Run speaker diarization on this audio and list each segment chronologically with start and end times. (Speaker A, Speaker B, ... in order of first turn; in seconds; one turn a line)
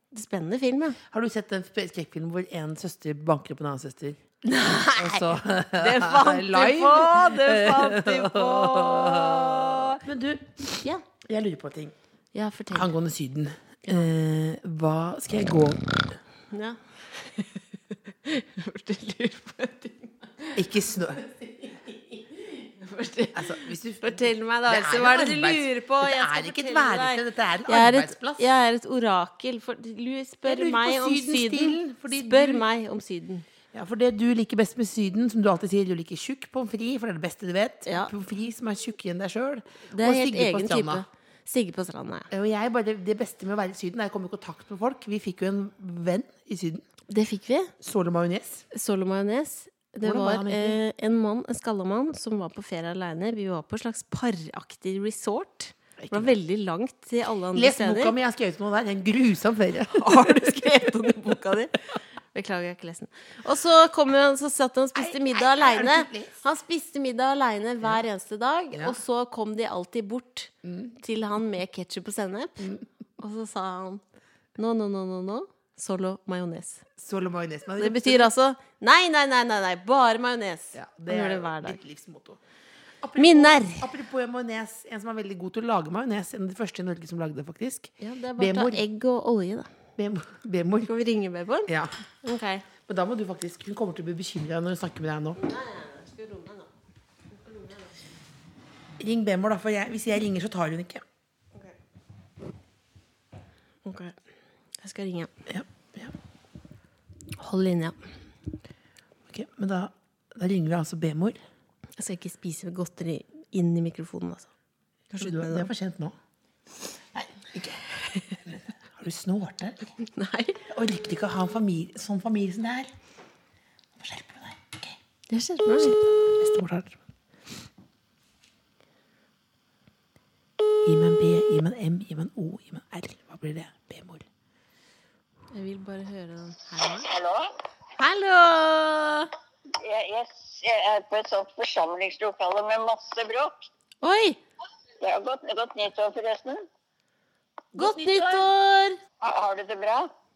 Speaker A: 0.1-1.0
Speaker B: 1.1-4.2
Speaker A: 4.4-10.0
Speaker B: 5.0-11.9
Speaker A: 12.3-12.9
Speaker B: 12.7-16.2
Speaker A: 16.5-17.6
Speaker A: 18.2-20.6
Speaker B: 20.6-21.2
Speaker A: 21.3-33.5
Speaker B: 23.4-28.5
Speaker B: 30.5-32.6
Speaker B: 33.7-41.0
Speaker A: 37.9-38.1
Speaker A: 39.9-42.3
Speaker B: 42.3-46.8
Speaker A: 47.1-47.7
Speaker B: 47.8-48.6
Speaker A: 48.7-58.1
Speaker B: 50.0-50.8
Speaker B: 56.0-56.4
Speaker B: 57.5-60.8
Speaker A: 59.9-61.8
Speaker A: 62.3-74.0
Speaker B: 65.0-66.4
Speaker A: 74.6-76.8
Speaker B: 77.0-78.3
Speaker A: 77.8-81.8
Speaker B: 80.7-82.4
Speaker B: 83.0-88.8
Speaker A: 83.2-83.9
Speaker A: 88.0-89.7
Speaker B: 90.0-90.9
Speaker A: 90.8-91.7
Speaker A: 92.2-92.7
Speaker B: 92.8-95.4
Speaker A: 95.4-96.7
Speaker A: 97.3-97.9
Speaker B: 99.0-101.0
Speaker A: 103.8-104.2
Speaker A: 104.8-105.3
Speaker B: 105.5-106.1
Speaker A: 107.4-108.1
Speaker B: 109.3-111.4
Speaker A: 112.0-114.5
Speaker A: 115.1-115.7
Speaker B: 115.2-116.2
Speaker B: 117.1-117.8
Speaker B: 118.5-119.9
Speaker A: 120.0-120.7
Speaker B: 120.7-122.9
Speaker B: 124.0-125.0
Speaker A: 125.3-126.0
Speaker B: 125.8-127.0
Speaker B: 130.9-134.2
Speaker A: 135.5-137.1
Speaker C: 137.1-137.5
Speaker A: 138.0-139.3
Speaker C: 139.8-143.7
Speaker A: 144.0-144.4
Speaker C: 145.0-146.7
Speaker B: 147.7-148.5
Speaker A: 147.8-149.0
Speaker C: 149.2-150.1